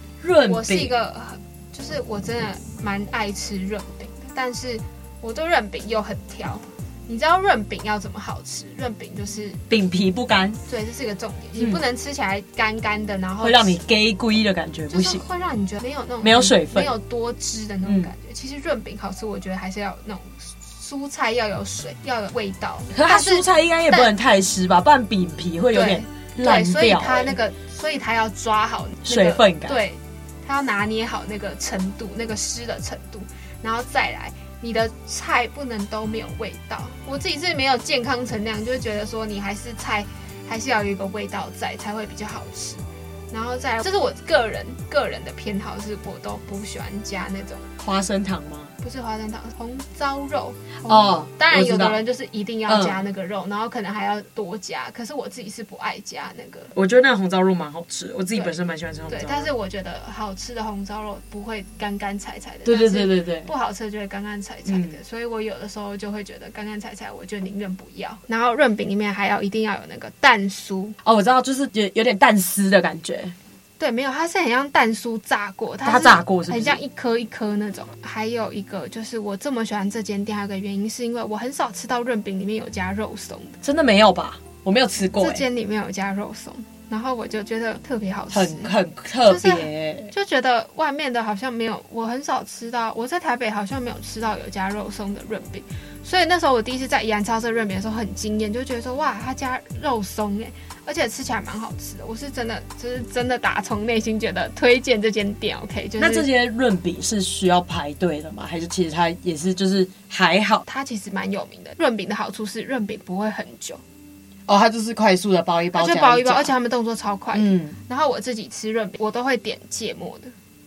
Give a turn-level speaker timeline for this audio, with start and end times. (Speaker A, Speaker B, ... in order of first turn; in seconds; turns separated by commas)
Speaker A: 0.2-0.9, Speaker B: 0.5-9.6, Speaker A: 9.7-10.6, Speaker B: 10.7-13.8, Speaker A: 11.6-11.8, Speaker A: 13.4-15.2, Speaker B: 14.9-24.1, Speaker A: 16.2-16.9, Speaker A: 17.9-18.1, Speaker A: 22.9-27.4, Speaker B: 25.7-47.7, Speaker A: 29.1-29.8, Speaker A: 47.8-48.7, Speaker B: 48.8-56.7, Speaker A: 50.9-52.0, Speaker A: 52.7-53.0, Speaker A: 56.7-59.5, Speaker B: 59.1-71.0, Speaker A: 62.7-63.5, Speaker A: 64.7-65.0, Speaker A: 71.0-73.3, Speaker B: 73.8-83.6, Speaker A: 75.8-76.8, Speaker A: 83.6-85.5, Speaker B: 85.2-88.7, Speaker A: 88.3-90.1, Speaker B: 89.3-106.3, Speaker A: 106.0-110.6, Speaker B: 110.7-113.8, Speaker A: 114.5-116.5, Speaker B: 115.7-120.3, Speaker A: 117.3-117.8